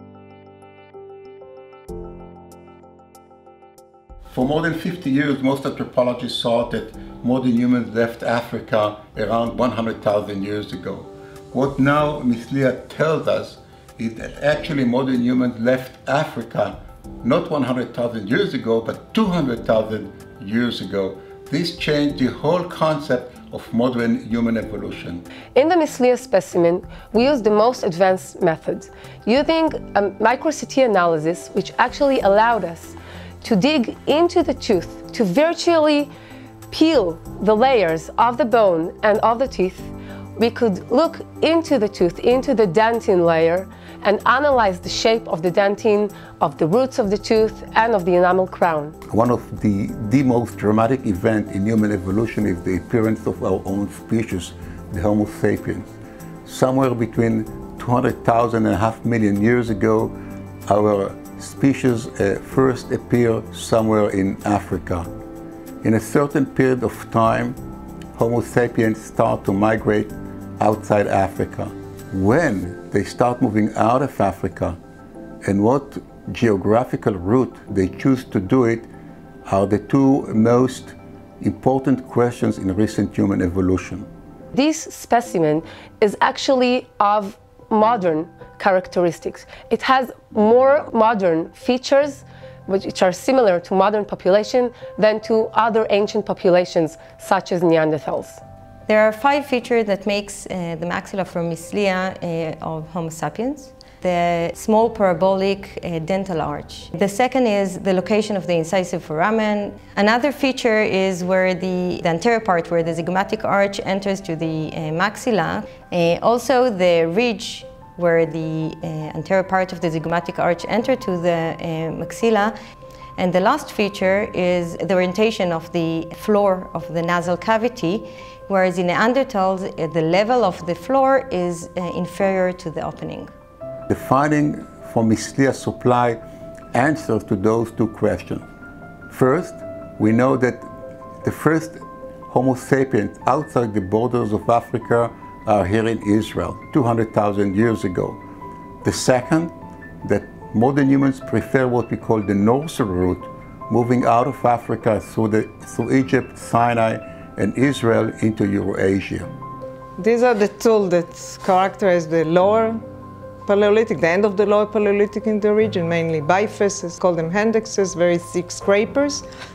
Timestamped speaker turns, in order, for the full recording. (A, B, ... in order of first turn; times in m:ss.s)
0:04.3-0:25.2 A
0:25.5-0:36.1 B
0:36.7-0:48.9 B
0:49.1-0:55.9 A
0:56.4-1:00.2 A
1:00.7-1:05.1 A
1:05.8-1:07.6 A
1:08.1-1:14.8 A
1:15.4-1:18.9 A
1:19.4-1:24.1 A
1:24.5-1:38.4 B
1:38.9-2:02.5 C
2:03.2-2:13.3 C
2:13.9-2:16.2 A
2:16.7-2:18.4 A
2:19.1-2:20.7 A
2:21.2-2:28.2 A
2:28.8-2:39.3 A
2:40.0-2:42.8 D
2:43.4-2:49.2 D